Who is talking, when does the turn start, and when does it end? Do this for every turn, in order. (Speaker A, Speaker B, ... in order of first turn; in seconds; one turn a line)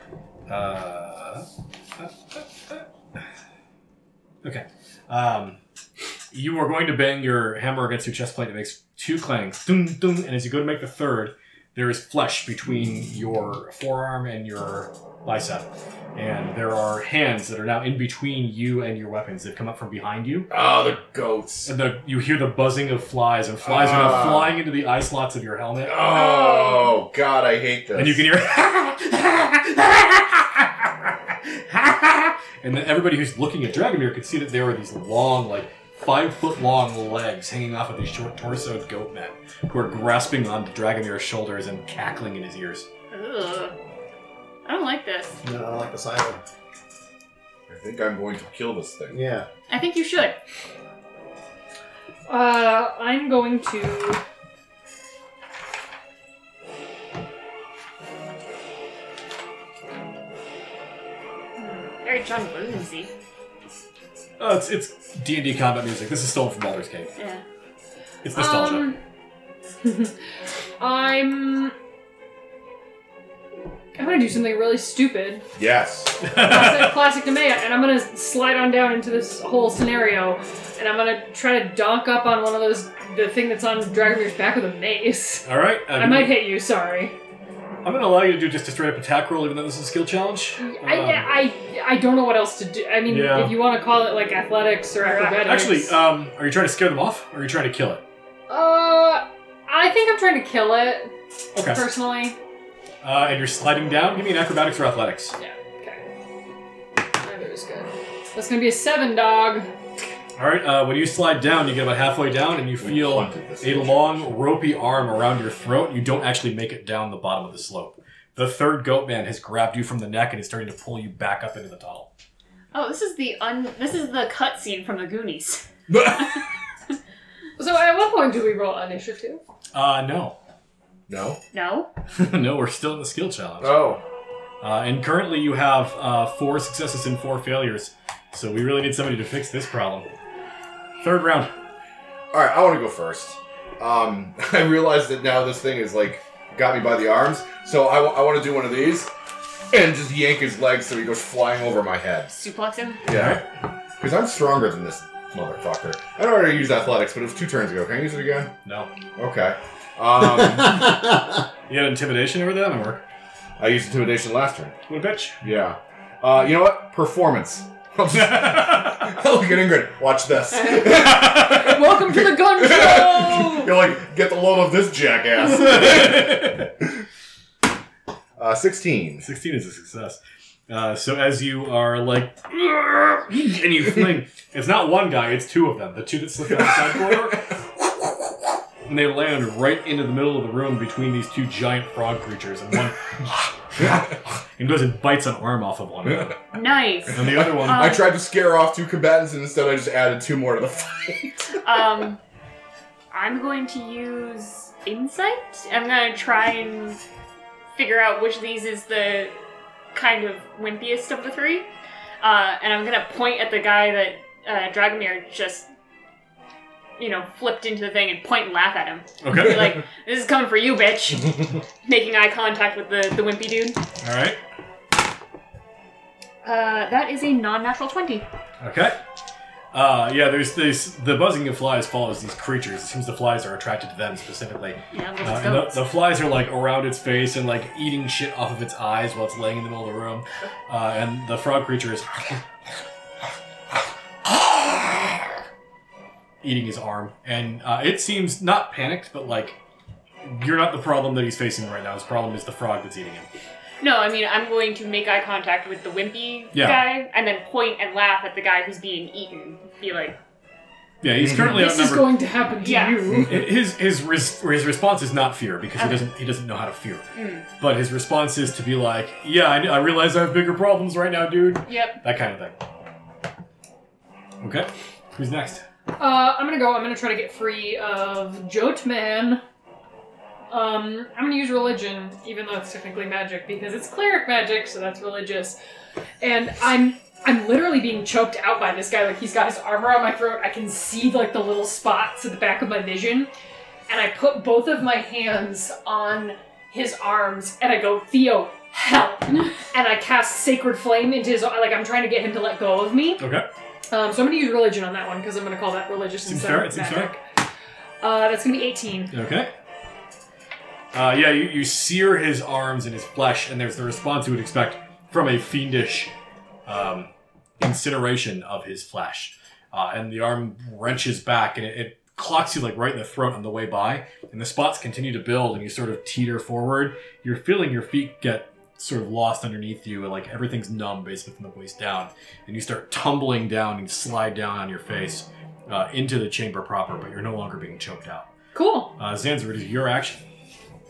Speaker A: 0.5-2.9
Speaker A: 4.4-5.6
Speaker A: 6.3-20.5
Speaker B: 20.5-21.7
Speaker A: 21.6-26.0
Speaker B: 23.6-24.6
Speaker B: 25.9-28.2
Speaker C: 26.1-27.0
Speaker A: 27.9-42.9
Speaker C: 43.1-43.8
Speaker C: 44.6-45.4
Speaker D: 45.4-46.4
Speaker B: 47.7-49.2
Speaker D: 49.1-49.5
Speaker C: 49.7-50.4
Speaker E: 52.3-54.2
Speaker C: 61.6-63.1
Speaker A: 64.4-67.1
Speaker C: 67.2-67.4
Speaker A: 68.2-68.9
Speaker E: 68.3-69.0
Speaker E: 69.8-70.1
Speaker E: 70.8-71.8
Speaker E: 73.9-75.4
Speaker B: 75.5-76.3
Speaker A: 76.2-77.0
Speaker E: 76.3-87.2
Speaker A: 85.4-86.4
Speaker A: 87.8-91.4
Speaker E: 90.6-96.0
Speaker A: 93.0-93.6
Speaker C: 95.0-95.3
Speaker A: 95.3-98.0
Speaker E: 98.5-102.4
Speaker A: 101.5-101.9
Speaker A: 103.0-105.4
Speaker E: 105.4-106.0
Speaker E: 107.1-109.7
Speaker A: 110.4-122.1
Speaker B: 112.8-114.3
Speaker C: 122.7-125.7
Speaker B: 125.9-126.4
Speaker E: 127.6-129.4
Speaker A: 129.7-130.4
Speaker B: 131.1-131.4
Speaker C: 131.5-131.9
Speaker A: 132.1-134.0
Speaker B: 133.6-134.0
Speaker A: 134.6-140.1
Speaker A: 141.0-141.5
Speaker B: 142.3-149.1
Speaker B: 149.7-152.4
Speaker C: 152.4-153.0
Speaker B: 153.0-153.4
Speaker A: 153.1-153.4
Speaker B: 154.0-158.5
Speaker A: 158.6-158.9
Speaker B: 159.2-160.9
Speaker D: 160.2-161.3
Speaker A: 161.7-163.0
Speaker B: 163.6-164.8
Speaker A: 164.9-165.4
Speaker B: 165.4-176.6
Speaker A: 168.1-169.0
Speaker E: 170.8-173.8
Speaker A: 175.5-176.7
Speaker B: 178.4-179.3
Speaker A: 179.2-188.0
Speaker B: 186.6-187.4
Speaker A: 188.8-196.4
Speaker C: 196.5-198.1
Speaker A: 197.1-198.0
Speaker B: 197.3-201.3
Speaker C: 201.6-202.2
Speaker C: 203.1-207.0
Speaker C: 207.8-209.4
Speaker C: 209.9-211.7
Speaker C: 212.2-215.7
Speaker C: 217.0-223.8
Speaker A: 219.2-219.8
Speaker A: 224.0-224.4
Speaker C: 226.4-228.2
Speaker A: 228.6-229.0
Speaker A: 229.7-242.4
Speaker C: 234.9-235.8
Speaker A: 246.4-249.6
Speaker A: 250.2-253.3
Speaker C: 253.8-260.2
Speaker A: 256.5-256.9
Speaker A: 261.0-262.2
Speaker E: 261.4-263.4
Speaker C: 262.6-263.1
Speaker A: 263.2-272.6
Speaker C: 265.8-266.0
Speaker C: 267.1-267.5
Speaker C: 271.6-272.0
Speaker A: 274.4-275.6
Speaker E: 276.0-279.4
Speaker E: 280.5-285.6
Speaker E: 286.2-293.3
Speaker E: 293.9-303.2
Speaker A: 303.2-303.5
Speaker E: 303.9-307.2
Speaker A: 306.2-307.1
Speaker E: 308.0-309.2
Speaker A: 309.1-309.5
Speaker A: 310.9-316.1
Speaker A: 316.7-338.3
Speaker E: 338.5-338.9
Speaker A: 339.0-340.2